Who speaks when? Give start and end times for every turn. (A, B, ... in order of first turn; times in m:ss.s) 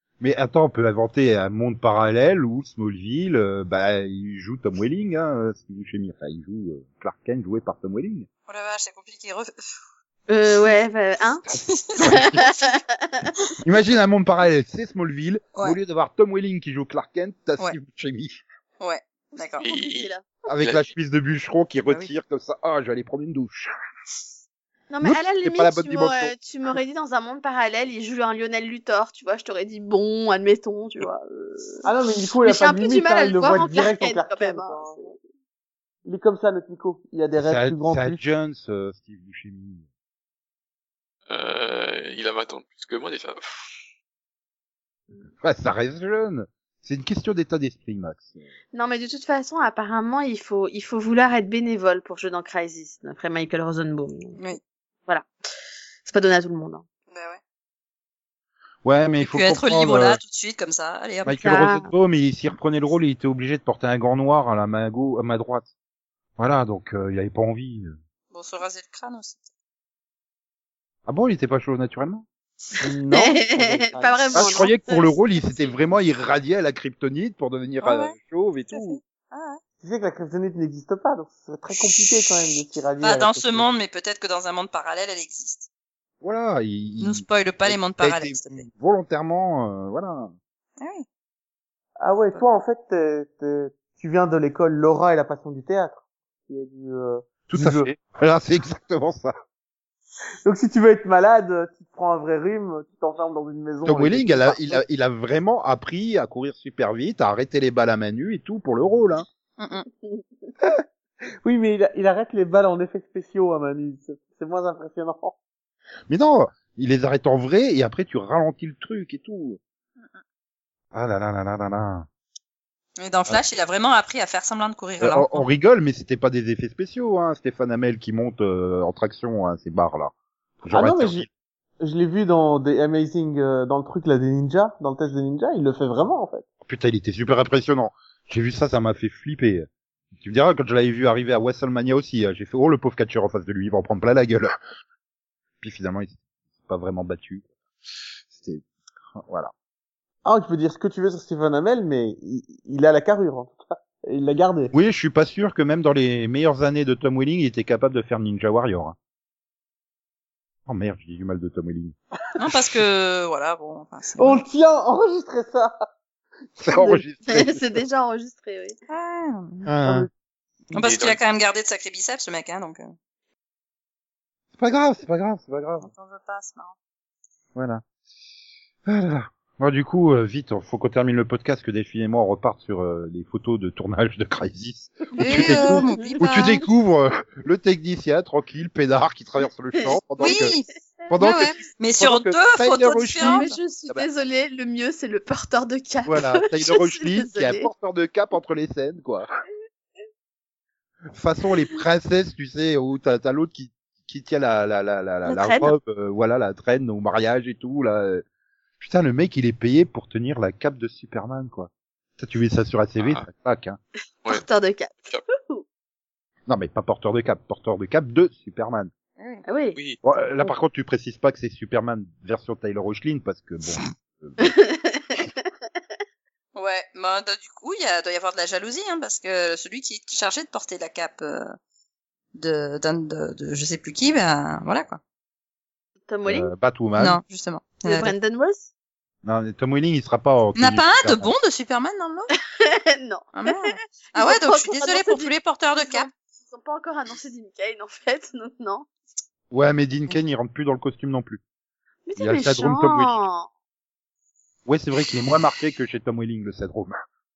0:00.2-0:08.3 A
0:08.5-0:09.5 B
0:10.3-0:11.4 C
0:11.5-0:12.5 B
0:12.0-0:12.4 A
0:12.1-0:13.4 C
0:13.6-0:18.4 A
0:18.8-0:19.7 B
0:19.4-0:20.2 C
0:19.6-0:20.9 D
0:20.5-0:23.7 A
0:24.9-0:31.9 C
0:25.0-0:26.3 A
0:31.8-0:35.1 E
0:32.4-0:35.2 C
0:36.0-0:38.2 E
0:37.4-0:39.8 A
0:41.3-0:43.8 D
0:45.4-0:48.4 A
0:48.7-0:54.4 C
0:56.0-0:56.9 C
0:57.1-0:57.4 B
0:58.8-1:00.2 A
0:59.2-1:01.5 B
1:01.3-1:05.7 A
1:01.4-1:01.9 C
1:06.4-1:08.0 A
1:08.3-1:09.5 B
1:11.1-1:12.3 A
1:12.8-1:14.2 E
1:12.9-1:13.4 A
1:13.1-1:15.1 C
1:14.3-1:19.0 A
1:17.8-1:18.2 B
1:18.7-1:19.6 B
1:19.8-1:23.7 E
1:23.0-1:25.7 B
1:26.2-1:30.3 A
1:27.0-1:28.7 B
1:30.8-1:31.0 B
1:32.0-1:37.9 E
1:37.5-1:39.3 A
1:40.4-1:44.8 E
1:43.8-1:49.3 A
1:49.6-1:49.9 B
1:51.4-1:55.4 E
1:56.1-1:59.6 A
2:00.9-2:02.1 A
2:03.0-2:05.4 B
2:05.0-2:11.3 A
2:10.7-2:11.3 E
2:11.8-2:16.4 E
2:16.6-2:19.7 A
2:20.2-2:24.5 A
2:25.6-2:27.5 A
2:28.3-2:29.5 A
2:30.2-2:34.7 E
2:34.7-2:39.0 A
2:40.7-2:42.0 A
2:42.4-2:44.4 B
2:44.2-2:45.7 E
2:46.6-2:47.8 A
2:46.8-2:48.8 C
2:48.9-2:49.7 B
2:49.7-2:50.1 A
2:50.7-2:52.9 B
2:50.8-2:51.2 D
2:54.6-2:55.9 A
2:55.8-2:56.7 B
2:57.6-2:57.8 A
2:58.9-3:10.5 A
3:05.2-3:06.6 B
3:05.2-3:06.2 C
3:09.8-3:10.3 C
3:10.2-3:10.7 B
3:11.1-3:14.1 A
3:11.2-3:13.6 B
3:13.2-3:17.7 C
3:16.1-3:19.3 A
3:21.1-3:28.2 A
3:25.3-3:25.8 C
3:28.8-3:33.8 A
3:33.0-3:33.3 D
3:34.3-3:35.6 C
3:36.5-3:38.9 A
3:39.2-3:39.4 B
3:39.5-3:39.8 C
3:40.0-3:44.6 A
3:44.4-3:45.3 C
3:46.6-3:51.5 B
3:52.4-3:55.0 B
3:56.1-3:56.5 C
3:56.3-3:57.2 A
3:57.0-3:58.1 B
3:57.8-3:58.7 C
3:59.2-4:01.3 A
4:00.6-4:02.3 B
4:02.6-4:08.9 C
4:03.3-4:06.1 B
4:09.5-4:11.4 A
4:12.1-4:13.5 C
4:12.2-4:13.3 A
4:14.7-4:17.0 A